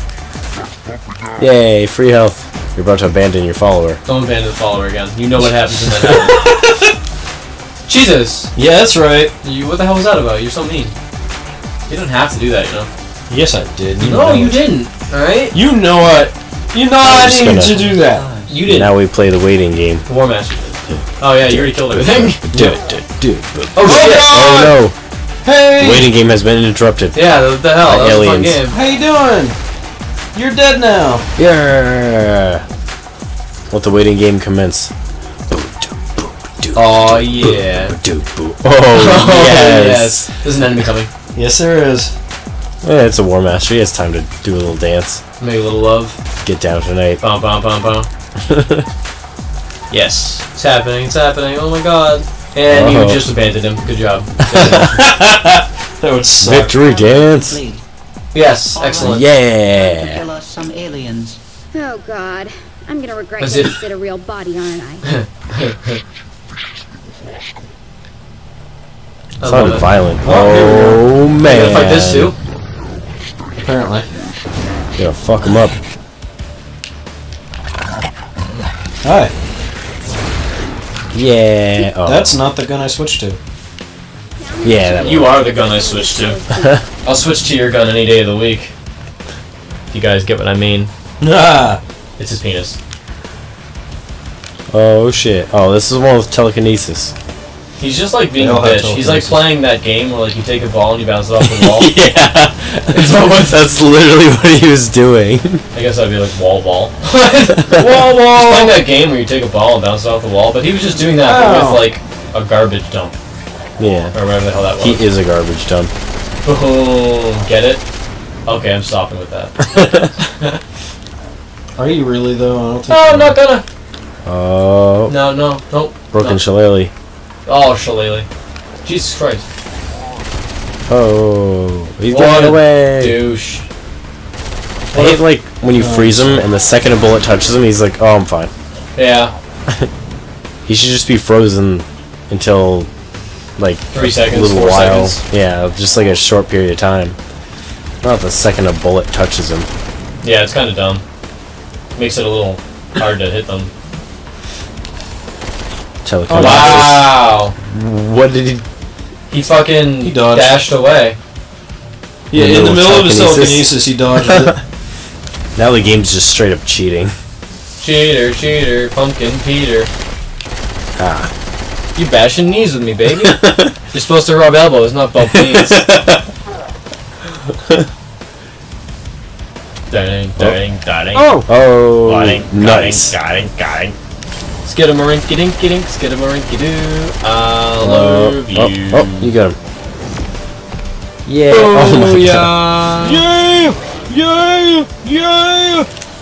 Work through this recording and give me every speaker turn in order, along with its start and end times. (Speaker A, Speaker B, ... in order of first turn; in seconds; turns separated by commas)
Speaker A: 1.4-4.0, Speaker B: 4.1-6.5, Speaker C: 6.3-7.0, Speaker B: 7.9-8.5, Speaker C: 8.6-9.3, Speaker B: 9.4-10.9, Speaker B: 11.9-12.9, Speaker C: 13.3-14.6, Speaker B: 14.0-15.6, Speaker A: 14.1-14.4, Speaker C: 15.5-18.3, Speaker A: 17.0-17.8, Speaker D: 17.6-18.6, Speaker B: 18.5-18.9, Speaker A: 18.6-20.1, Speaker B: 20.1-22.6, Speaker A: 20.9-25.0, Speaker B: 23.8-24.4, Speaker C: 23.8-24.8, Speaker C: 25.4-26.1, Speaker A: 25.8-28.6, Speaker B: 27.1-28.8, Speaker C: 28.7-29.6, Speaker C: 30.3-31.3, Speaker A: 31.4-32.6, Speaker A: 33.7-34.9, Speaker A: 35.5-40.3, Speaker B: 36.8-38.0, Speaker B: 38.9-41.1, Speaker C: 41.4-42.1, Speaker A: 42.8-45.2, Speaker B: 45.4-46.2, Speaker A: 46.4-47.2, Speaker B: 47.2-48.1, Speaker A: 48.5-48.9, Speaker B: 49.9-54.9, Speaker A: 52.7-53.3, Speaker A: 54.4-55.0, Speaker C: 54.6-56.8, Speaker A: 56.4-57.6, Speaker D: 56.6-57.8, Speaker B: 58.3-59.3, Speaker D: 58.7-61.4, Speaker A: 59.0-60.2, Speaker E: 61.7-65.1, Speaker B: 63.4-63.8, Speaker B: 65.1-66.0, Speaker B: 69.4-69.9, Speaker A: 69.4-72.3, Speaker C: 70.2-71.1, Speaker B: 71.4-72.3, Speaker C: 73.6-74.1, Speaker A: 75.0-75.8, Speaker C: 79.0-79.3, Speaker A: 81.1-82.3, Speaker C: 82.0-83.4, Speaker E: 84.4-86.9, Speaker A: 84.6-85.4, Speaker B: 85.0-86.4, Speaker A: 86.5-86.8, Speaker B: 87.0-88.7, Speaker B: 89.9-90.9, Speaker C: 91.2-91.8, Speaker B: 92.2-92.8, Speaker A: 94.7-97.1, Speaker B: 97.8-101.9, Speaker C: 98.3-99.5, Speaker A: 101.4-105.6, Speaker B: 102.9-103.7, Speaker B: 105.7-113.2, Speaker A: 107.7-108.8, Speaker C: 111.2-111.9, Speaker A: 113.8-114.2, Speaker B: 114.1-115.0, Speaker A: 114.8-115.9, Speaker B: 116.4-117.8, Speaker B: 118.5-119.7, Speaker A: 119.7-120.1, Speaker B: 120.2-120.6, Speaker C: 121.8-123.4, Speaker B: 122.9-123.7, Speaker A: 124.2-125.2, Speaker B: 125.1-126.4, Speaker A: 126.1-126.9, Speaker B: 127.5-128.3, Speaker B: 128.8-129.4, Speaker A: 130.9-133.2, Speaker B: 132.1-133.7, Speaker A: 134.9-138.5, Speaker B: 134.9-135.2, Speaker C: 135.7-136.4, Speaker B: 139.0-139.3, Speaker A: 140.7-142.9, Speaker A: 143.6-147.2, Speaker B: 143.9-145.2, Speaker A: 148.0-149.7, Speaker B: 150.2-151.0, Speaker B: 152.0-153.7, Speaker A: 156.1-157.1, Speaker C: 156.3-157.0, Speaker B: 156.3-157.5, Speaker A: 157.6-158.7, Speaker B: 159.3-161.2, Speaker C: 160.0-160.6, Speaker C: 162.3-164.5, Speaker A: 162.3-164.6, Speaker A: 165.6-167.1, Speaker B: 167.8-169.9, Speaker A: 171.0-171.3, Speaker B: 171.9-175.8, Speaker A: 173.2-173.8, Speaker A: 175.3-176.2, Speaker A: 177.5-177.9, Speaker B: 179.9-181.4, Speaker A: 181.2-183.2, Speaker B: 182.1-184.0, Speaker B: 184.7-189.3, Speaker A: 187.8-189.6, Speaker A: 191.3-192.6, Speaker B: 191.5-193.2, Speaker C: 192.9-195.9